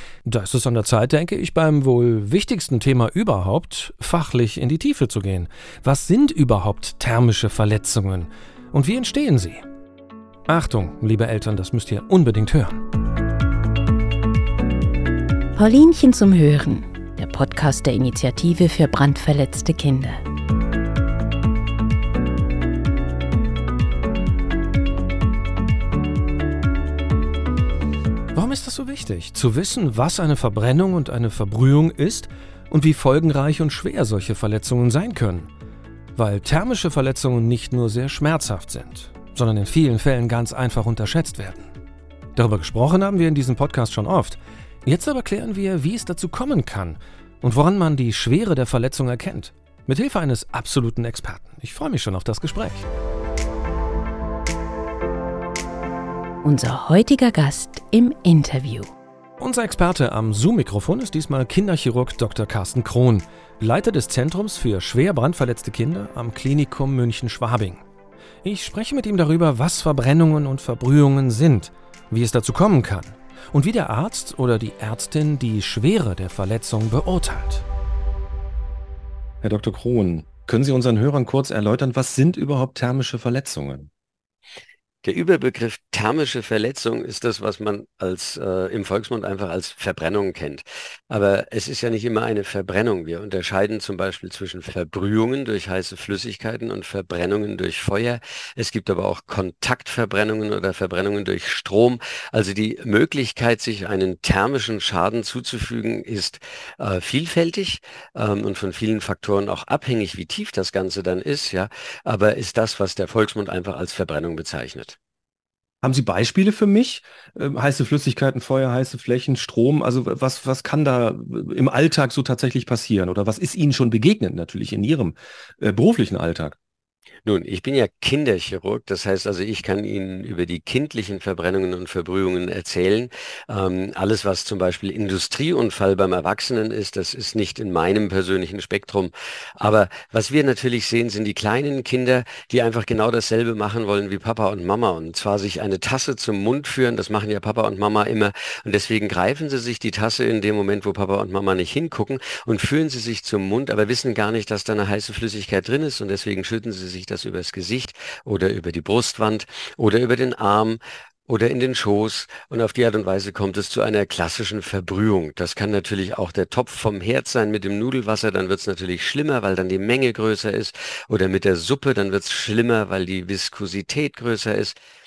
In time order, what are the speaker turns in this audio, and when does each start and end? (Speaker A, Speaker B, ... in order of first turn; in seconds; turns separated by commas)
Speaker A: 0.2-9.6, Speaker A: 10.5-12.8, Speaker B: 15.6-20.2, Speaker A: 28.3-35.5, Speaker A: 36.1-41.7, Speaker A: 42.3-52.9, Speaker B: 56.4-58.9, Speaker A: 59.4-67.8, Speaker A: 68.4-77.6, Speaker C: 79.4-83.9, Speaker D: 85.0-115.0, Speaker C: 115.8-126.5, Speaker D: 127.2-174.8